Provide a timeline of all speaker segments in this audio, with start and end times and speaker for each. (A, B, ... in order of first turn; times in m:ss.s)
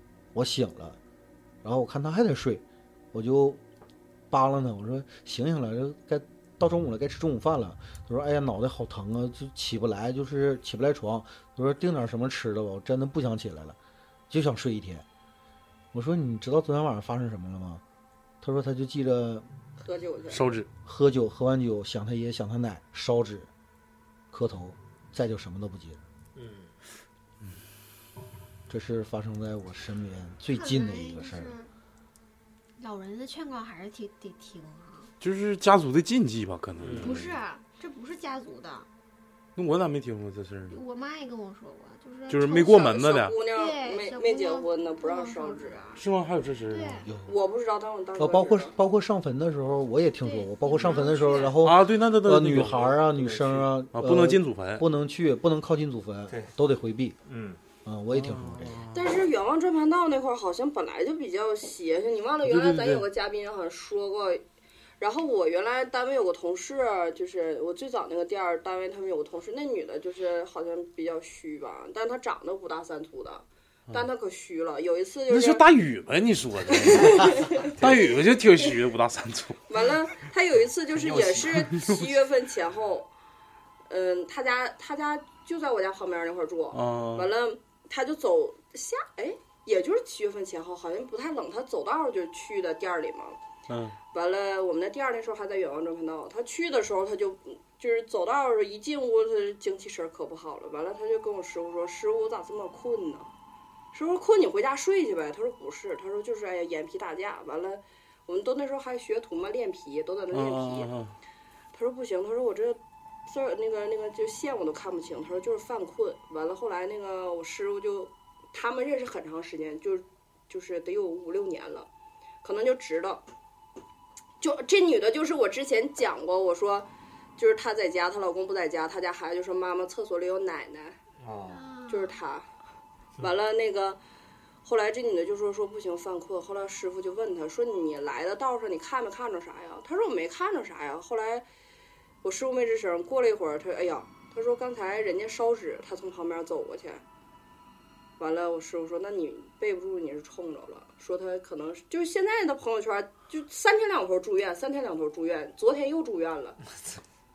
0:00.3-0:01.0 A
0:01.6-0:03.6 A
0:04.3-0:13.8 A
0:14.3-0:15.0 A
0:15.9-0:17.8 A
0:18.4-0:19.5 A
0:19.8-0:20.4 B
0:20.3-0:20.7 C
0:20.8-0:23.5 A
0:24.3-0:26.0 A
0:26.3-0:26.7 D
0:28.7-0:31.5 A
0:30.5-0:31.7 E
0:32.8-0:35.1 E
0:35.2-0:37.3 C
0:36.8-0:37.2 D
0:37.0-0:38.9 E
0:39.6-0:40.8 C
0:40.7-0:46.0 E
0:42.3-0:43.3 C
0:42.6-0:45.9 B
0:46.0-0:47.0 C
0:46.7-0:47.1 E
0:47.0-0:47.4 A
0:47.2-0:48.7 B
0:48.2-0:57.2 A
0:50.2-0:51.6 E
0:51.6-0:52.9 C
0:52.7-0:53.7 D
0:53.9-0:54.8 C
0:57.3-0:57.6 D
0:57.8-0:58.8 A
0:58.1-0:59.2 C
0:58.9-1:04.4 B
1:02.4-1:03.0 C
1:05.0-1:15.6 B
1:15.3-1:19.6 C
1:16.8-1:18.1 B
1:19.7-1:23.1 B
1:21.0-1:21.8 D
1:21.7-1:22.1 C
1:23.9-1:33.4 B
1:26.7-1:27.3 C
1:33.7-1:34.0 C
1:34.1-1:43.3 B
1:43.9-1:50.9 B
1:50.3-1:51.1 C
1:51.7-2:01.9 B
2:02.4-2:03.2 B
2:04.4-2:11.0 B
2:11.2-2:11.6 D
2:11.4-2:12.2 E
2:11.9-2:12.5 B
2:13.2-2:14.0 B
2:14.6-2:21.4 B
2:22.2-2:27.0 B
2:28.2-2:36.6 B